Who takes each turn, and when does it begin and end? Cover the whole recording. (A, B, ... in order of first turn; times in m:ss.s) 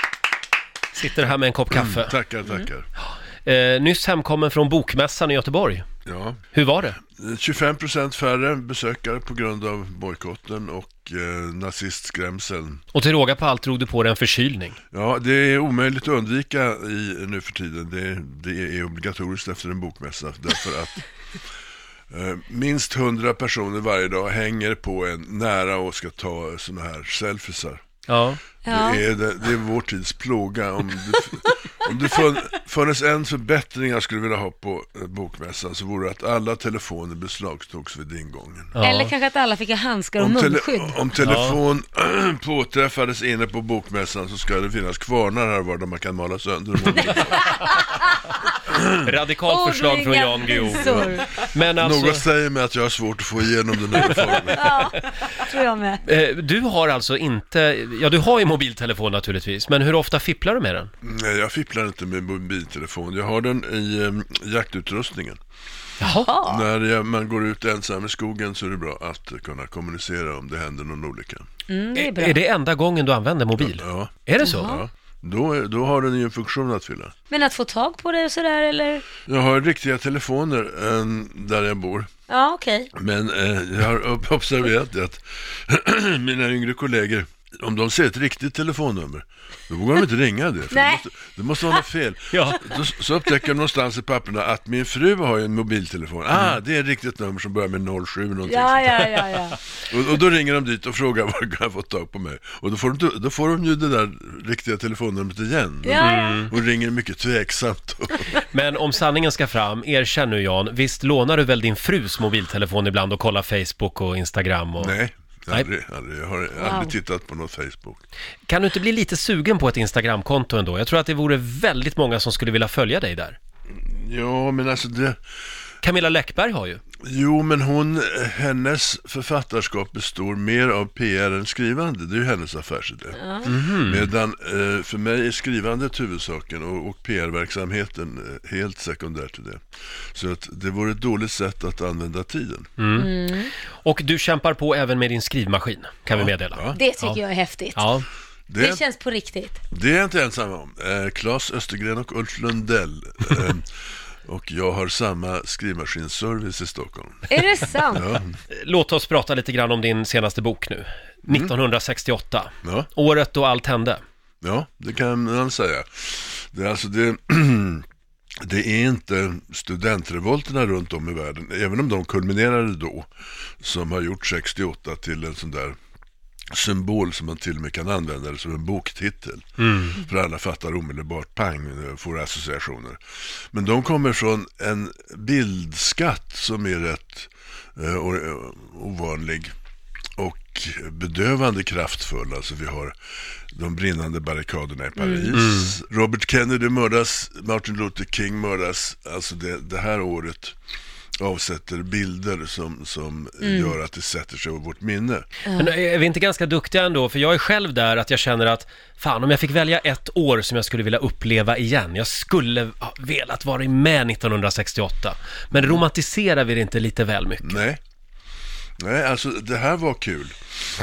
0:00.9-0:02.2 A
0:01.7-0:02.9 B
0:03.4-0:05.8 A
0:06.0-0:06.4 B
0:06.5-0:07.0 A
0:07.0-0:12.8 B
0:12.9-0:14.8 A
0:14.9-0:21.0 B
0:22.1-0:27.8 B
0:28.1-0:28.4 A
0:28.6-0:29.0 C
0:28.6-0:38.8 B
0:38.7-0:39.1 A
0:38.8-0:41.0 C
0:40.2-0:47.6 B
0:41.2-0:41.6 A
0:47.0-0:48.0 C
0:48.6-0:49.0 B
0:49.0-0:52.2 A
0:49.4-0:51.3 C
0:50.8-0:51.1 B
0:51.6-0:54.9 B
0:54.5-0:56.0 C
0:56.0-1:00.9 A
1:01.0-1:05.4 B
1:06.0-1:06.3 A
1:06.0-1:06.6 C
1:06.4-1:11.5 B
1:11.7-1:12.4 C
1:11.9-1:14.7 A
1:13.6-1:17.1 B
1:14.4-1:14.8 C
1:17.3-1:19.0 C
1:19.2-1:22.1 B
1:22.3-1:22.9 C
1:22.9-1:39.3 B
1:30.7-1:31.0 C
1:32.3-1:32.6 A
1:38.4-1:39.6 C
1:39.8-1:48.3 B
1:45.8-1:46.5 C
1:46.0-1:46.5 A
1:48.4-1:54.9 A
1:54.8-1:58.0 B
1:56.6-1:56.9 C
1:58.5-2:03.4 A
2:03.7-2:05.2 B
2:05.8-2:06.8 A
2:07.0-2:19.6 B
2:13.2-2:13.5 C
2:13.4-2:14.1 A
2:20.1-2:22.7 B
2:22.8-2:23.1 A
2:22.9-2:23.5 C
2:23.8-2:27.2 A
2:26.1-2:26.8 B
2:26.7-2:27.9 C
2:27.7-2:28.0 A
2:28.5-2:28.8 B
2:28.6-2:29.6 C
2:29.7-2:33.7 B
2:34.2-2:37.4 B
2:37.3-2:38.1 C
2:37.9-2:38.3 B
2:38.5-2:44.0 A
2:41.3-2:41.5 B
2:42.6-2:42.9 B
2:44.4-2:47.8 B
2:48.4-2:55.8 B
2:56.5-3:03.0 B
2:59.6-2:59.9 A
3:03.5-3:09.5 B
3:10.2-3:12.9 B
3:13.5-3:20.5 B
3:15.0-3:15.3 C
3:15.3-3:15.7 A
3:21.2-3:25.2 B
3:23.4-3:23.8 C
3:25.4-3:25.7 C
3:25.6-3:37.6 A
3:35.5-3:35.8 B
3:37.4-3:37.8 B
3:38.8-3:40.4 B